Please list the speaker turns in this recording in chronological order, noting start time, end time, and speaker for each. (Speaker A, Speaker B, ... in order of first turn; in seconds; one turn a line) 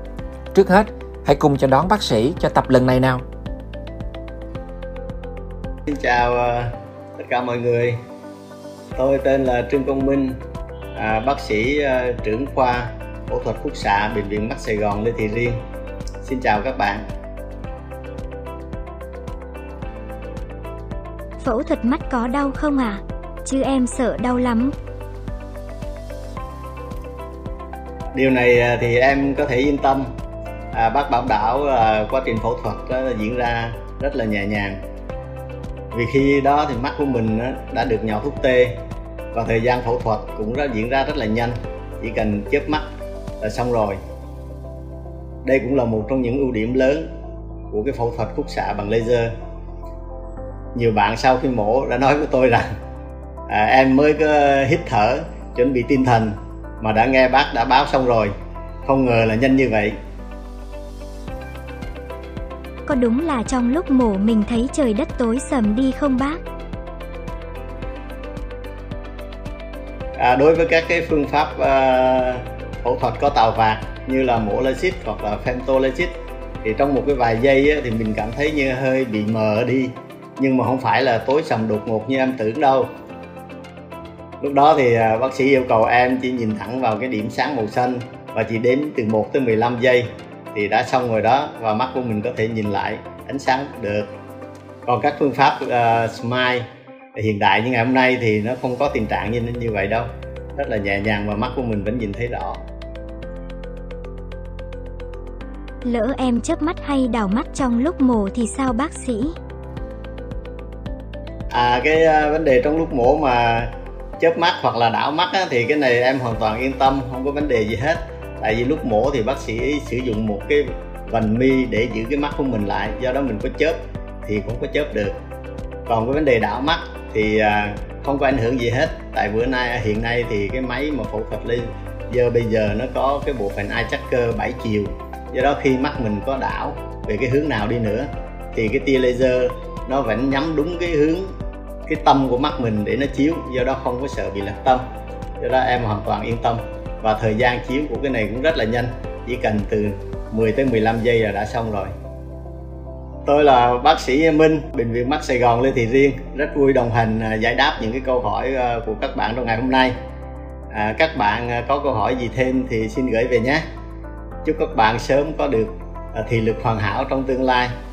Speaker A: 0.5-3.2
Speaker B: 5.9-8.0
Speaker B: 8.9-10.4
Speaker B: 10.9-15.6
Speaker B: 16.2-17.1
Speaker C: 21.4-24.7
Speaker B: 28.1-30.1
Speaker B: 30.7-34.8
Speaker B: 35.9-38.8
Speaker B: 39.3-42.9
Speaker B: 43.4-44.0
Speaker B: 45.4-47.1
Speaker B: 47.7-49.3
Speaker B: 50.7-52.7
Speaker B: 53.5-58.3
Speaker B: 58.9-60.0
Speaker C: 62.9-66.4
Speaker B: 70.2-82.9
Speaker B: 84.4-94.1
Speaker B: 94.8-102.6
Speaker C: 105.8-109.3
Speaker B: 111.5-125.2
Speaker B: 125.9-141.3
Speaker B: 141.9-144.8
Speaker B: 145.4-151.9
Speaker B: 153.2-159.9
Speaker B: 160.7-163.6
Speaker B: 164.4-167.7